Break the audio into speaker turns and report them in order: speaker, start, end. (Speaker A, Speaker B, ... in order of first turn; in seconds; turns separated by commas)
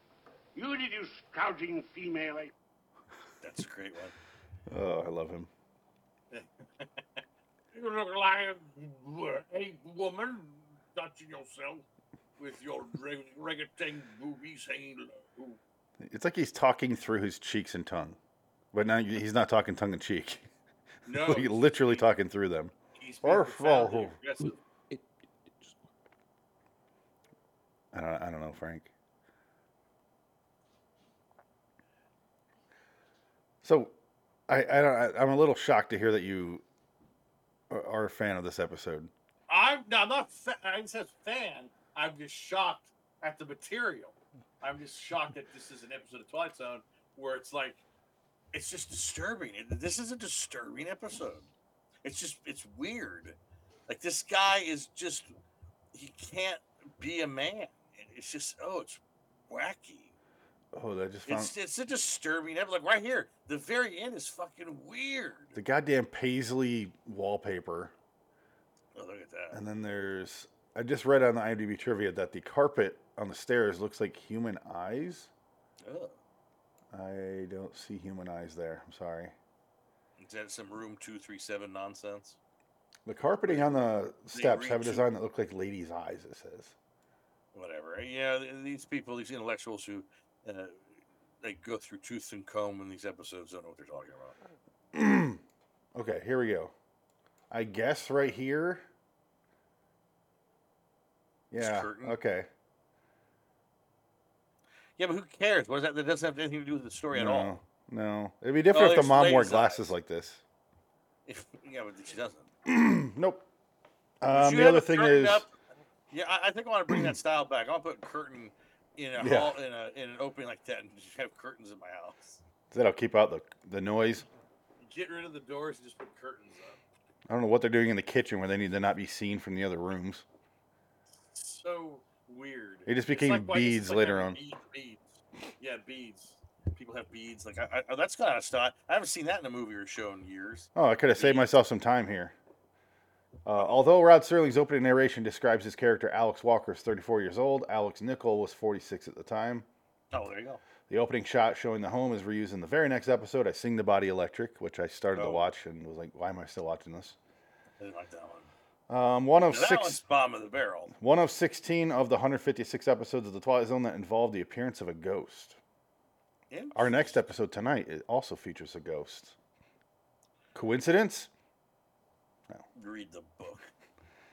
Speaker A: 0.5-2.5, Speaker B: 3.4-4.1, Speaker C: 4.7-5.5, Speaker B: 6.3-7.2, Speaker B: 7.7-11.8, Speaker B: 12.4-15.6, Speaker C: 16.0-18.2, Speaker C: 18.7-20.4, Speaker B: 21.1-22.1, Speaker C: 21.1-24.1, Speaker B: 22.9-24.6, Speaker C: 27.9-28.9, Speaker C: 33.6-33.9, Speaker C: 34.5-36.6, Speaker C: 37.7-39.1, Speaker B: 39.5-47.8, Speaker B: 48.5-51.5, Speaker B: 52.0-55.3, Speaker B: 55.9-60.1, Speaker C: 60.7-61.5, Speaker B: 61.2-65.6, Speaker C: 65.5-67.9, Speaker B: 68.9-69.6, Speaker C: 69.5-75.3, Speaker B: 75.8-76.2, Speaker C: 76.9-79.3, Speaker B: 80.2-82.4, Speaker C: 83.0-86.7, Speaker B: 83.5-85.1, Speaker B: 87.5-90.8, Speaker B: 91.4-94.4, Speaker C: 94.9-95.4, Speaker C: 96.0-96.7, Speaker C: 97.5-98.8, Speaker C: 101.5-102.5, Speaker B: 101.5-102.1, Speaker B: 105.0-107.6, Speaker C: 107.1-110.4, Speaker B: 108.7-109.9, Speaker B: 111.2-112.5, Speaker C: 112.7-113.5, Speaker C: 114.2-115.5, Speaker B: 114.3-115.5, Speaker B: 116.1-122.4, Speaker C: 119.2-119.6, Speaker C: 122.7-124.2, Speaker B: 124.8-126.8, Speaker C: 127.3-130.2, Speaker B: 131.3-141.5, Speaker C: 132.9-134.4, Speaker C: 140.7-142.3, Speaker C: 143.4-149.7, Speaker B: 143.5-143.9, Speaker B: 150.1-150.6, Speaker C: 150.9-157.2, Speaker B: 155.1-155.5, Speaker B: 157.8-158.5, Speaker C: 158.9-160.0, Speaker B: 159.5-160.9, Speaker C: 161.0-165.6, Speaker B: 166.5-167.2, Speaker C: 166.7-169.3, Speaker C: 170.5-171.3, Speaker B: 172.7-173.7